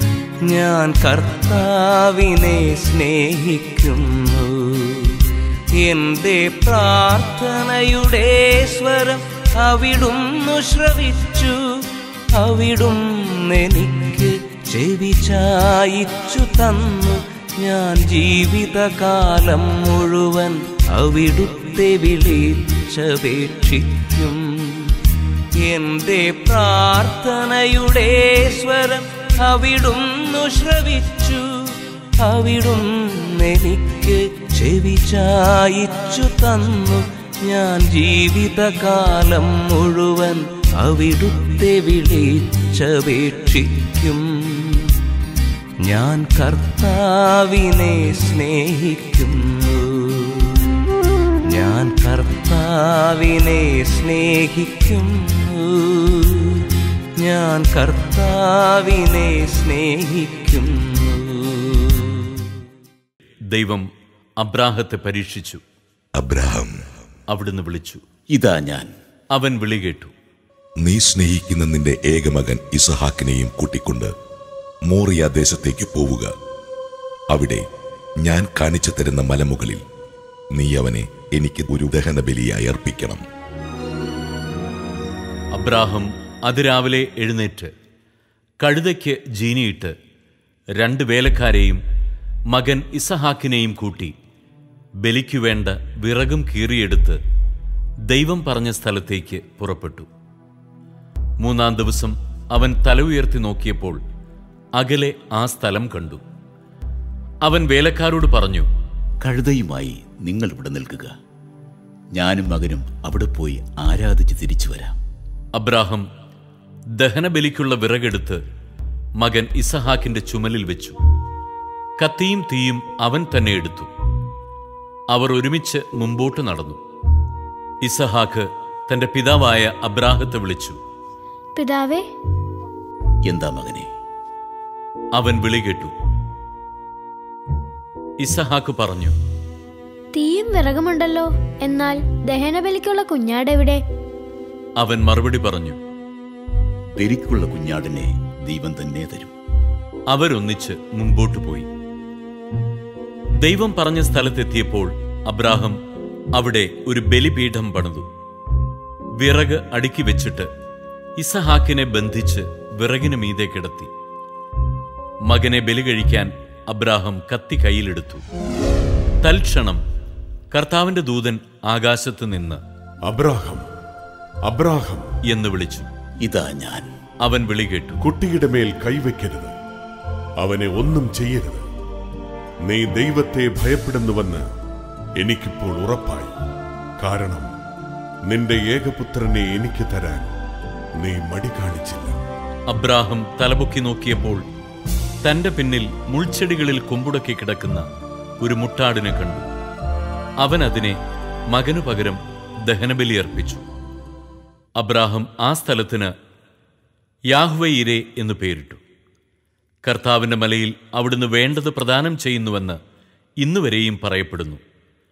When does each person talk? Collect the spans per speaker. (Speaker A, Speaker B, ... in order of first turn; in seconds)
Speaker A: 0.4-25.0, 25.5-45.0, 45.8-50.8, 51.4-62.5
Speaker B: 63.5-63.9, 64.4-65.6, 67.3-68.0, 69.3-70.1, 85.5-87.7, 88.6-90.0, 90.8-91.8, 92.5-94.1, 95.0-97.2, 98.1-100.1, 101.4-104.0, 104.8-106.2, 107.5-108.7, 115.5-116.1, 117.0-118.4, 119.2-121.0, 122.0-123.9, 125.1-126.8, 127.8-130.8, 135.2-135.9, 138.2-139.2, 144.8-145.8, 150.1-151.7, 153.4-155.8, 156.3-158.1, 159.2-160.5, 161.2-163.9, 165.3-168.2, 169.2-169.8, 170.5-172.6, 175.3-175.9, 177.2-178.0, 192.7-194.4, 195.2-197.9, 198.4-199.5, 200.4-201.0, 201.5-203.6, 204.8-206.1, 207.3-208.8, 209.8-212.8, 213.4-214.6
Speaker C: 66.2-66.7, 70.8-74.1, 74.9-76.3, 77.3-77.6, 78.2-79.8, 80.5-83.2
Speaker D: 68.4-68.9, 109.3-111.1, 112.2-114.9, 133.3-133.9, 147.0-149.3, 176.3-176.9
Speaker E: 131.6-132.1, 140.1-143.8
Speaker F: 173.1-173.7, 174.5-175.1, 178.0-179.6, 180.4-181.7, 182.7-184.4, 185.2-186.3, 187.0-187.5, 188.3-190.3, 191.0-192.2